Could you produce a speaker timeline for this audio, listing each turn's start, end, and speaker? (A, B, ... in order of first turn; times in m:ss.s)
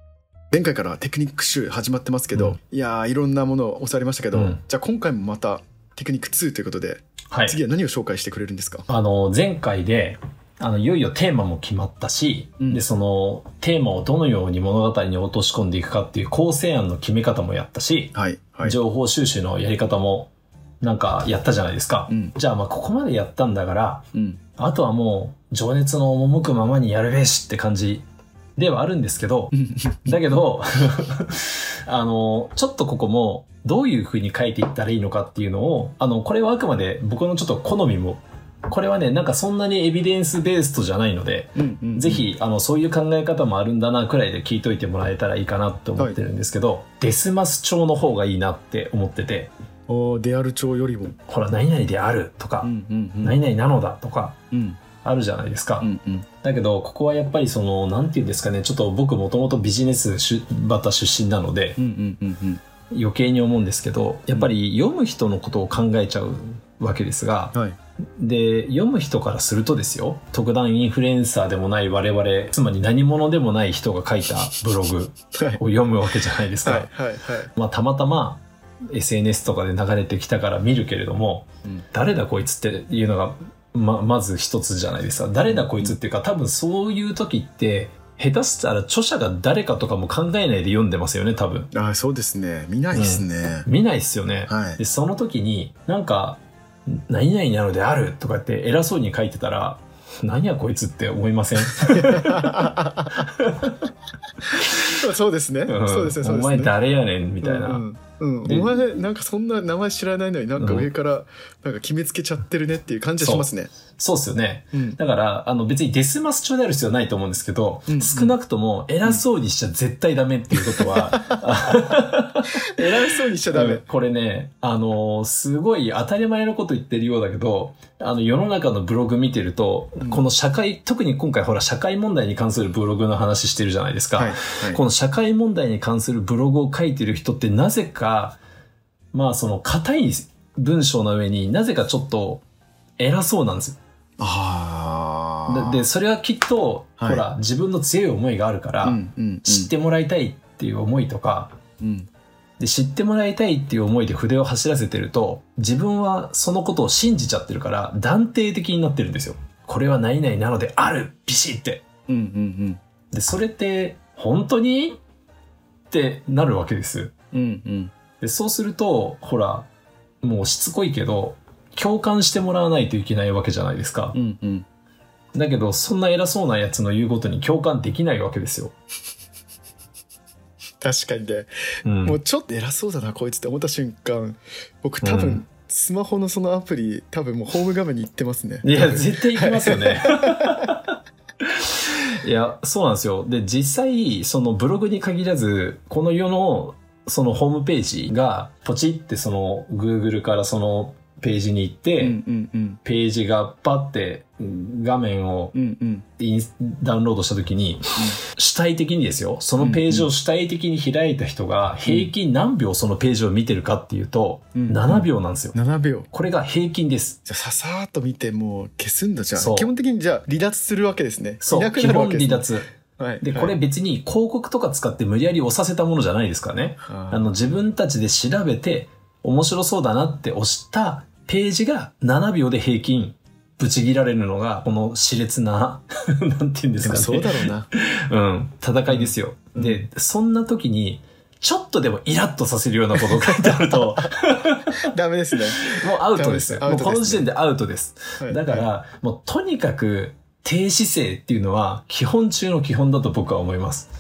0:00.5-0:08.9 A
0:04.3-0:04.6 B
0:07.3-0:07.6 B
0:08.9-0:28.0 B
0:18.1-0:18.8 A
0:22.1-0:22.3 A
0:24.1-0:24.4 A
0:28.6-0:49.5 B
0:29.5-0:30.1 A
0:41.6-0:42.2 A
0:49.9-0:51.2 A
0:51.3-0:52.7 B
0:52.6-0:53.4 A
0:53.2-0:54.4 B
0:54.5-0:54.8 A
0:55.0-1:01.8 B
0:55.8-0:56.3 A
1:01.8-1:02.6 A
1:02.9-1:07.6 B
1:08.2-1:16.9 B
1:15.3-1:15.6 A
1:16.6-1:17.5 A
1:17.5-1:31.7 B
1:25.5-1:25.9 A
1:31.7-1:33.7 A
1:32.9-1:43.8 B
1:34.5-1:34.8 A
1:41.9-1:43.2 A
1:44.5-1:44.9 B
1:44.8-1:46.7 A
1:45.7-1:47.8 B
1:47.4-1:53.7 A
1:48.4-1:48.8 B
1:50.6-1:50.9 B
1:53.2-2:18.4 B
1:54.7-1:55.0 A
1:57.9-1:58.3 A
2:00.5-2:01.4 A
2:02.7-2:03.8 A
2:14.2-2:14.8 A
2:19.1-2:22.4 B
2:23.0-2:23.8 B
2:24.2-2:25.8 A
2:25.4-2:31.5 B
2:27.0-2:27.2 A
2:28.8-2:29.7 A
2:31.8-2:32.1 A
2:32.6-2:41.8 B
2:42.1-2:42.8 A
2:43.1-2:45.0 B
2:45.9-2:47.1 B
2:47.3-2:47.9 A
2:48.2-2:49.7 B
2:50.2-2:54.2 B
2:54.1-2:54.6 A
2:55.3-2:58.7 B
3:00.8-3:01.5 A
3:01.8-3:02.2 B
3:02.0-3:10.7 A
3:05.0-3:05.4 B
3:08.6-3:22.2 B
3:22.0-3:22.8 A
3:22.8-3:25.5 B
3:25.5-3:26.0 A
3:26.2-3:35.5 B
3:29.6-3:30.1 A
3:31.8-3:32.1 A
3:34.6-3:36.1 A
3:36.1-3:37.2 B
3:37.2-3:43.6 A
3:39.4-3:39.7 B
3:41.4-3:42.7 B
3:43.2-4:04.9 B
3:46.9-3:47.3 A
3:56.8-3:57.7 A
3:58.9-3:59.8 A
4:02.9-4:04.1 A
4:04.8-4:07.2 A
4:05.6-4:13.9 B
4:08.2-4:08.6 A